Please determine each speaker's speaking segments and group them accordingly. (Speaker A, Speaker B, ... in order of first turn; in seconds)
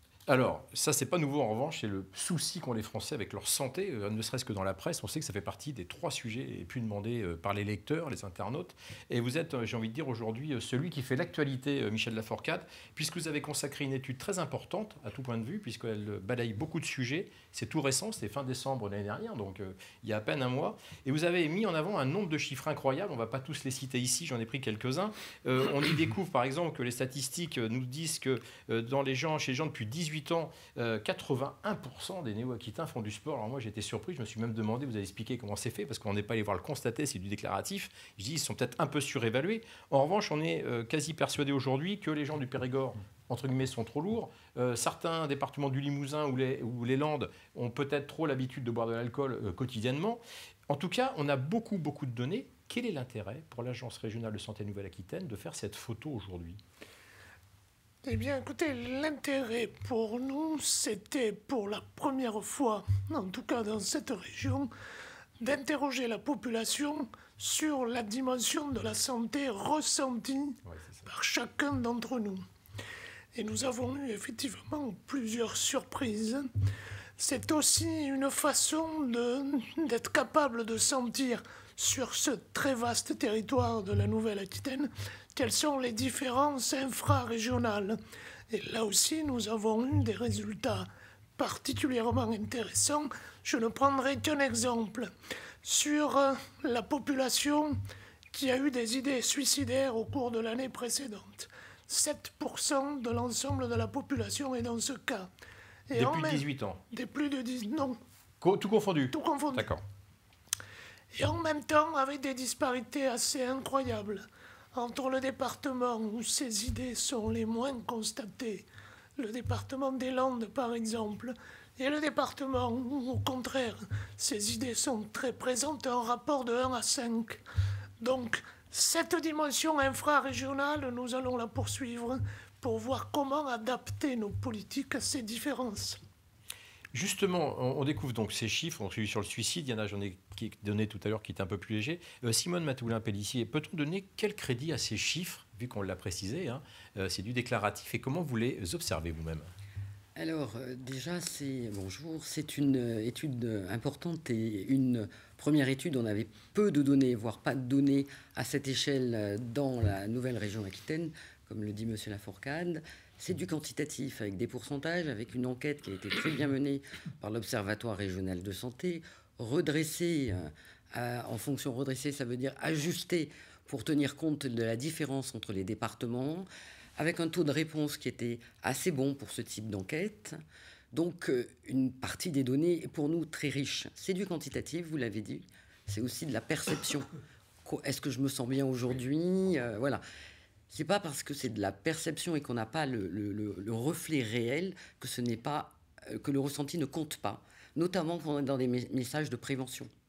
Speaker A: 0.3-56.6, 70.7-71.1, 105.9-106.8, 108.4-109.8, 136.9-149.5
Speaker B: 58.0-64.7, 65.4-72.4, 73.3-76.5, 77.2-88.0, 88.5-95.1, 95.6-97.8, 98.3-105.3, 105.9-108.0, 109.1-109.7, 111.1-118.7, 119.2-127.4, 128.0-136.0
Speaker C: 150.2-180.4, 180.9-187.1, 187.7-190.0, 190.7-199.9